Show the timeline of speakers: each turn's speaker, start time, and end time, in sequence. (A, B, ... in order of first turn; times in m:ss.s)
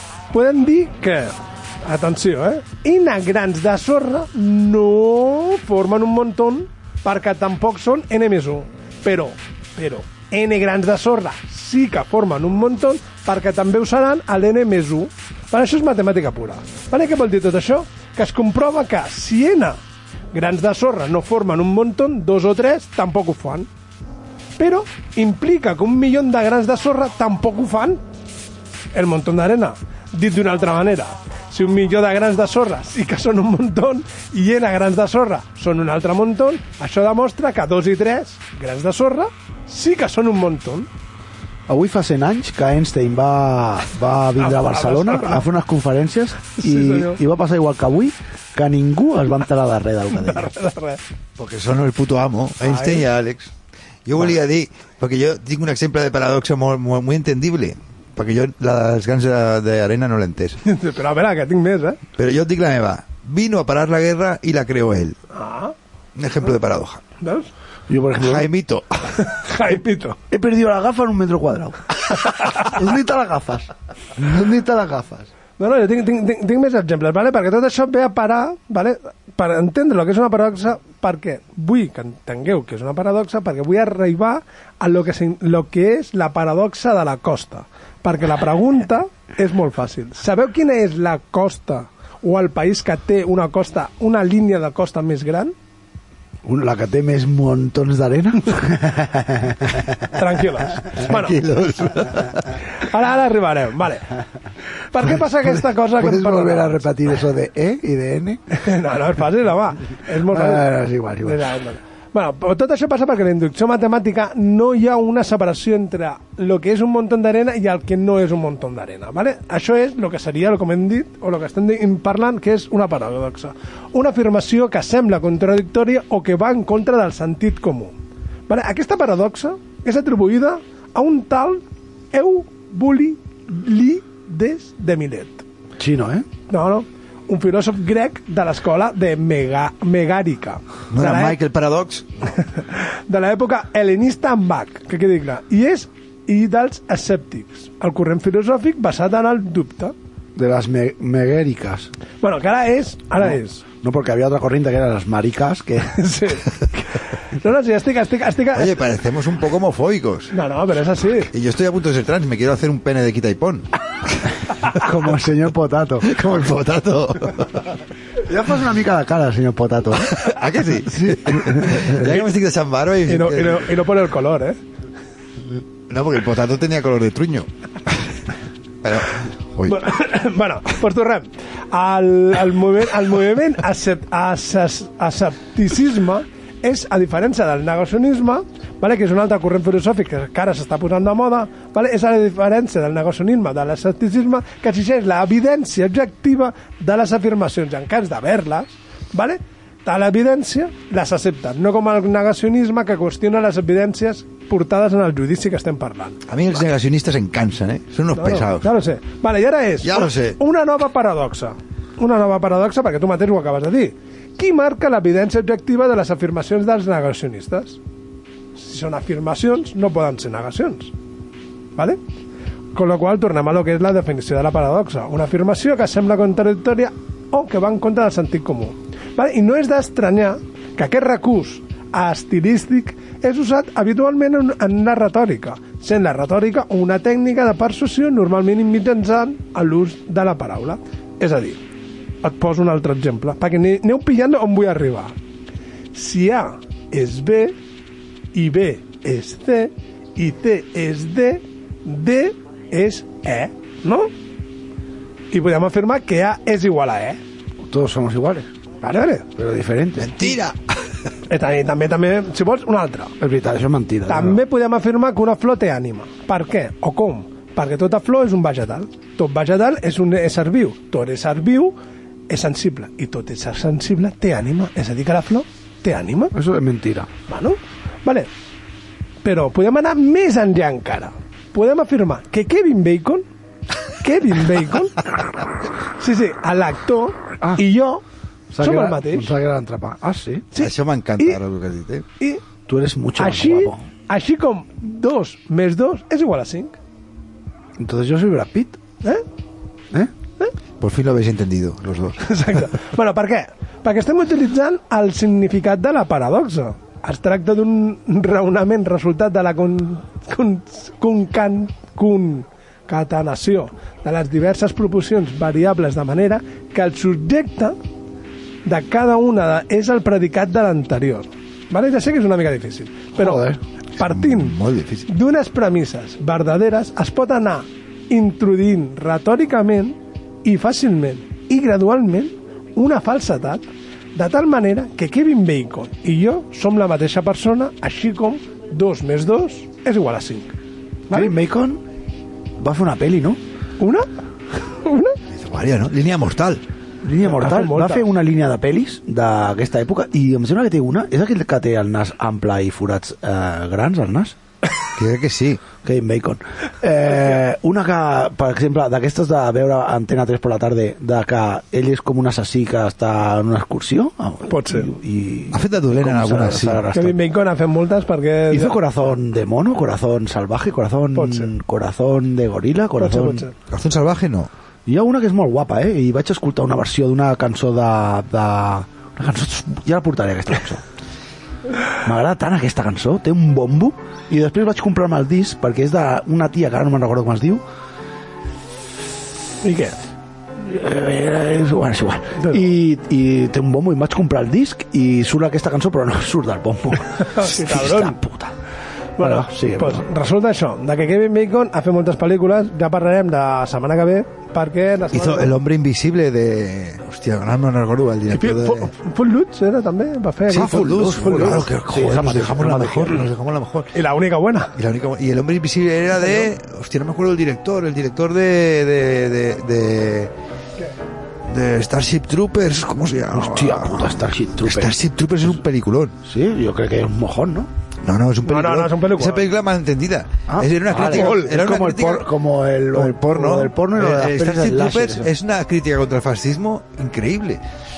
0:00.3-0:19.8 A
0:20.3-0:23.7 A
0:24.6-0:28.0 A
0:28.9-0:40.9 A
0:41.7-0:50.5 B
0:44.4-0:45.4 A
0:46.6-0:47.2 A
0:50.1-0:51.0 A
0:51.4-0:53.5 C
0:52.6-0:53.0 A
0:54.0-1:00.6 C
1:00.6-1:02.0 A
1:02.2-1:05.2 C
1:05.3-1:05.7 A
1:06.2-1:07.0 C
1:07.2-1:07.5 A
1:07.9-1:08.5 B
1:08.2-1:09.4 C
1:09.2-1:10.2 A
1:10.3-1:15.3 B
1:12.4-1:12.7 A
1:15.6-1:35.5 A
1:36.4-1:39.9 B
1:40.1-1:41.4 A
1:41.0-1:42.6 C
1:42.7-1:44.1 A
1:44.9-1:46.8 A
1:46.0-1:48.4 B
1:48.6-1:50.7 A
1:50.3-1:51.5 B
1:51.2-2:07.9 A
2:08.5-2:15.4 A
2:15.8-2:16.3 B
2:16.5-2:21.4 A
2:20.9-2:22.0 C
2:22.6-2:29.9 A
2:30.4-2:31.9 B
2:32.2-2:33.6 A
2:33.8-2:36.0 B
2:36.0-2:38.8 A
2:38.5-2:40.3 C
2:40.3-2:41.3 A
2:41.3-2:44.3 C
2:44.8-2:46.3 B
2:46.1-2:47.7 C
2:48.2-2:50.2 B
2:50.1-2:53.7 C
2:50.9-2:52.1 B
2:53.1-2:54.6 A
2:55.9-2:58.0 C
2:58.8-2:59.9 C
2:59.7-3:26.2 A
3:26.3-3:28.7 C
3:28.1-3:37.8 A
3:29.8-3:30.4 C
3:38.6-3:40.9 A
3:42.7-4:01.6 A
4:02.2-4:05.1 A
4:05.9-4:07.6 A
4:08.3-4:14.1 A
4:15.3-4:17.2 A
4:17.6-4:18.5 B
4:18.8-4:19.3 A
4:19.4-4:20.4 B
4:20.0-4:20.6 C
4:21.3-4:23.1 A
4:23.2-4:24.4 B
4:24.1-4:31.7 A
4:32.3-4:36.3 A
4:36.3-4:37.1 B
4:37.3-4:38.3 A
4:39.2-4:43.2 A
4:43.9-4:45.0 A
4:45.9-4:48.0 A
4:48.5-4:50.4 B
4:48.6-4:49.3 A
4:50.5-4:51.4 A
4:50.6-4:52.0 C
4:52.7-4:53.8 B
4:53.2-4:56.7 A
4:57.8-4:58.8 B
5:00.8-5:02.2 C
5:02.2-5:17.8 A
5:18.6-5:24.6 A
5:23.2-5:23.6 B
5:24.0-5:25.1 C
5:25.1-5:33.6 A
5:34.1-5:40.5 A
5:41.1-5:41.8 B
5:42.6-5:43.4 B
5:43.8-5:44.1 A
5:44.7-5:45.2 A
5:45.3-5:46.6 C
5:47.0-5:54.4 B
5:47.2-5:48.0 A
5:55.0-5:55.6 C
5:55.8-6:07.2 B
6:04.5-6:04.9 A
6:05.5-6:06.8 C
6:06.9-6:08.8 A
6:08.5-6:13.5 B
6:11.1-6:11.5 A
6:13.0-6:13.5 A
6:13.7-6:14.5 C
6:14.9-6:20.8 B
6:22.0-6:27.6 B
6:29.6-6:29.9 A
6:30.6-6:38.6 B
6:37.2-6:38.2 A
6:39.2-6:40.0 B
6:39.2-6:45.5 A
6:45.1-6:48.9 C
6:48.3-6:51.6 A
6:50.5-6:53.3 B
6:50.5-6:53.9 C
6:53.9-6:54.8 A
6:54.7-7:00.3 C
6:56.2-6:56.5 A
7:01.5-7:06.1 C
7:03.3-7:05.0 B
7:06.2-7:07.7 B
7:08.0-7:12.3 C
7:08.4-7:09.4 A
7:10.5-7:15.3 B
7:12.9-7:17.6 C